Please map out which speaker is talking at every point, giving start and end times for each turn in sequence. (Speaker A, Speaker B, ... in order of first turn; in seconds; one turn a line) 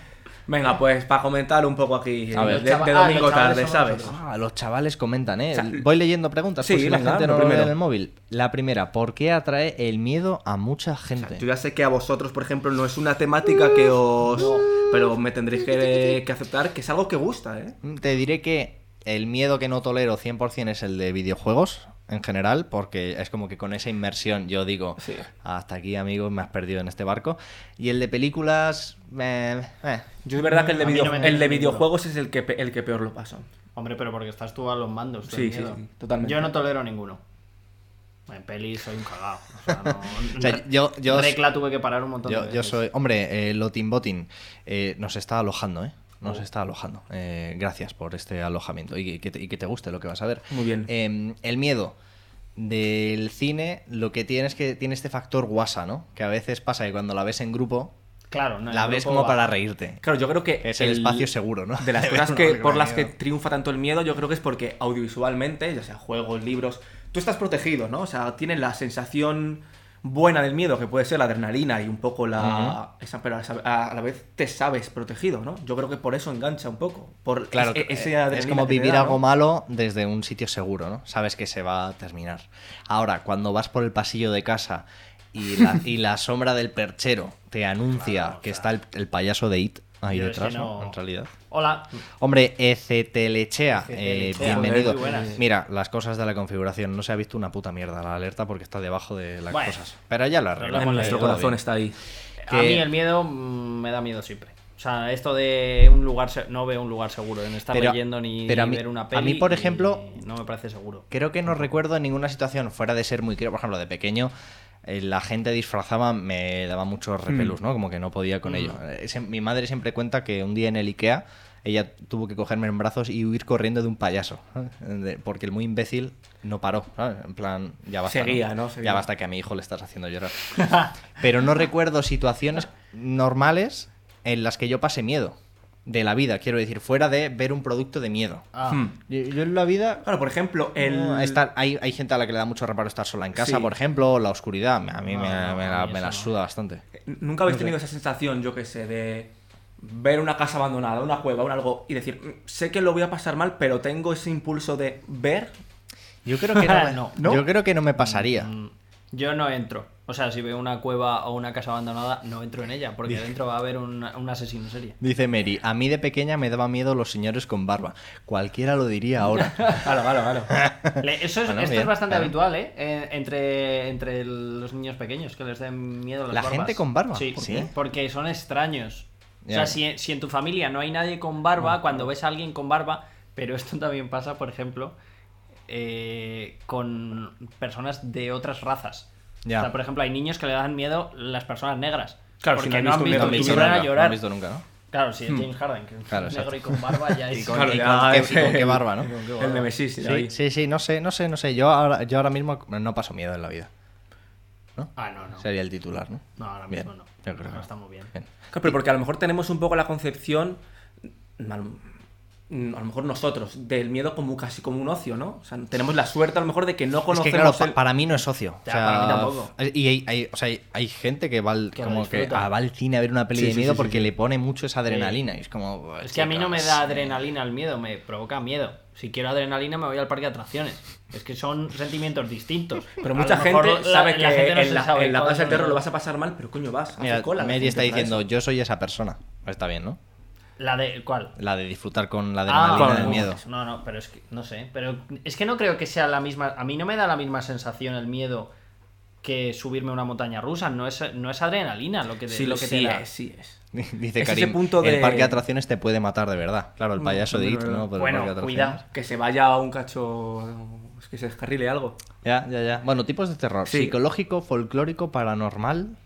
Speaker A: 0.5-4.1
Speaker B: 2.3-2.6
Speaker C: 2.3-4.2
Speaker B: 4.0-11.4
Speaker A: 5.5-5.8
Speaker A: 6.6-7.7
Speaker A: 11.2-17.8
Speaker C: 14.4-14.7
Speaker B: 17.8-31.3
Speaker A: 25.0-25.3
Speaker A: 30.2-33.5
Speaker C: 30.8-31.9
Speaker C: 33.8-37.2
Speaker A: 35.3-36.5
Speaker C: 38.3-42.8
Speaker B: 39.7-41.4
Speaker B: 42.2-52.0
Speaker A: 50.5-50.9
Speaker B: 52.5-57.9
Speaker C: 58.3-59.5
Speaker B: 58.7-60.0
Speaker A: 60.0-79.2
Speaker B: 60.6-63.1
Speaker B: 72.4-72.8
Speaker B: 77.5-91.3
Speaker C: 87.9-88.7
Speaker C: 90.1-91.0
Speaker C: 91.5-92.0
Speaker B: 92.2-101.6
Speaker C: 93.8-95.4
Speaker A: 94.4-95.5
Speaker C: 99.5-99.8
Speaker C: 100.6-101.3
Speaker A: 100.7-102.0
Speaker C: 102.4-111.1
Speaker B: 102.5-102.9
Speaker B: 107.7-110.0
Speaker B: 111.1-114.3
Speaker B: 114.8-138.5
Speaker A: 118.5-118.7
Speaker A: 128.1-129.1
Speaker C: 130.5-130.9
Speaker C: 138.5-138.8
Speaker A: 138.7-138.9
Speaker B: 139.1-140.0
Speaker A: 140.0-141.4
Speaker B: 140.8-146.8
Speaker A: 143.3-143.7
Speaker C: 145.0-146.3
Speaker A: 147.0-155.5
Speaker B: 147.5-147.7
Speaker B: 156.2-158.5
Speaker C: 156.5-157.2
Speaker A: 157.2-157.4
Speaker C: 158.0-165.0
Speaker B: 165.0-169.8
Speaker A: 169.8-170.5
Speaker B: 170.5-172.3
Speaker C: 171.0-184.9
Speaker B: 176.3-177.7
Speaker B: 179.4-179.8
Speaker C: 185.7-194.2
Speaker B: 189.4-189.7
Speaker A: 192.4-193.8
Speaker B: 193.1-194.6
Speaker C: 194.9-199.7
Speaker B: 196.1-199.1
Speaker A: 197.3-200.3
Speaker B: 200.0-203.7
Speaker B: 204.8-208.7
Speaker C: 204.9-205.4
Speaker C: 206.4-208.1
Speaker A: 208.5-210.6
Speaker A: 211.4-211.9
Speaker A: 212.5-217.8
Speaker B: 217.1-227.1
Speaker C: 218.6-219.5
Speaker C: 221.8-222.5
Speaker A: 223.3-224.1
Speaker C: 224.9-225.2
Speaker C: 226.0-235.8
Speaker A: 233.0-238.2
Speaker B: 237.0-240.0
Speaker C: 240.6-241.3
Speaker B: 241.4-243.4
Speaker C: 242.5-248.5
Speaker A: 242.7-243.3
Speaker C: 249.2-253.0
Speaker A: 252.3-253.6
Speaker B: 253.7-258.8
Speaker A: 254.2-255.4
Speaker A: 257.0-257.9
Speaker C: 257.9-258.8
Speaker A: 258.9-262.0
Speaker B: 262.2-266.0
Speaker A: 263.6-264.0